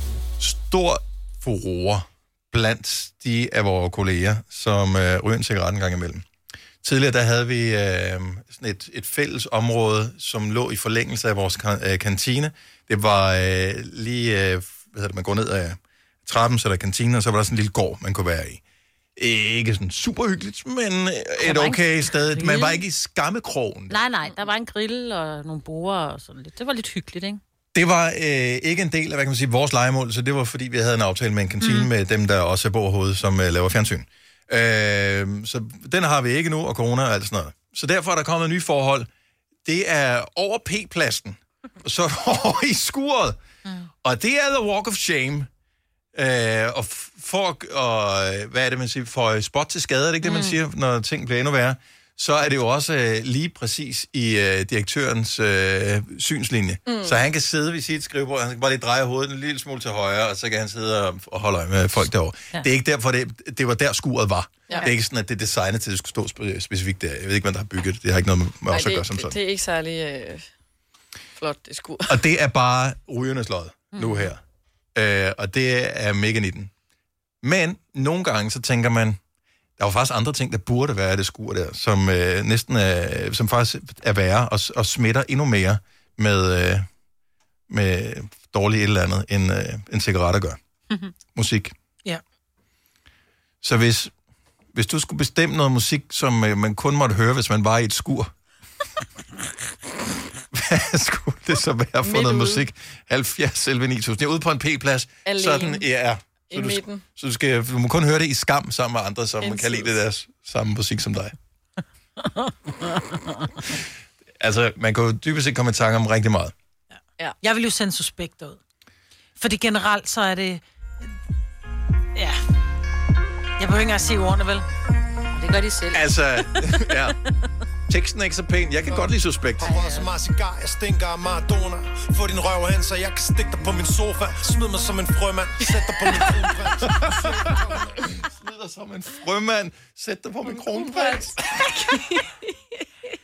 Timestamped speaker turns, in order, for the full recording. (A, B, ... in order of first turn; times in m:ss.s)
0:00.4-0:06.2 A
0:06.8-0:18.6 A
0:19.2-0:24.0 A
0:21.4-0:22.8 B
0:23.9-0:27.4 B
0:27.7-0:39.1 A
0:39.6-0:43.4 A
0:44.0-0:45.5 A
0:46.1-1:09.3 A
0:50.2-0:50.6 B
0:56.9-0:57.1 C
1:08.7-1:10.4 C
1:11.4-1:12.2 C
1:12.1-1:14.4 A
1:13.9-1:14.3 B
1:14.9-1:16.7 A
1:17.4-1:19.2 A
1:19.8-1:26.8 A
1:27.7-1:30.6 A
1:31.3-1:31.7 A
1:33.6-1:34.1 A
1:34.7-1:38.3 A
1:40.5-1:51.3 A
1:42.0-1:42.7 C
1:45.2-1:45.8 C
1:46.5-1:47.0 C
1:49.4-1:49.9 C
1:54.4-1:56.5 A
1:57.4-1:58.6 D
1:59.4-2:00.6 D
2:03.6-2:04.6 D
2:05.3-2:06.0 B
2:05.9-2:07.2 A
2:07.9-2:09.7 A
2:09.6-2:17.9 E
2:09.6-2:10.1 B
2:16.9-2:17.2 A
2:18.0-2:21.6 A
2:20.4-2:22.8 C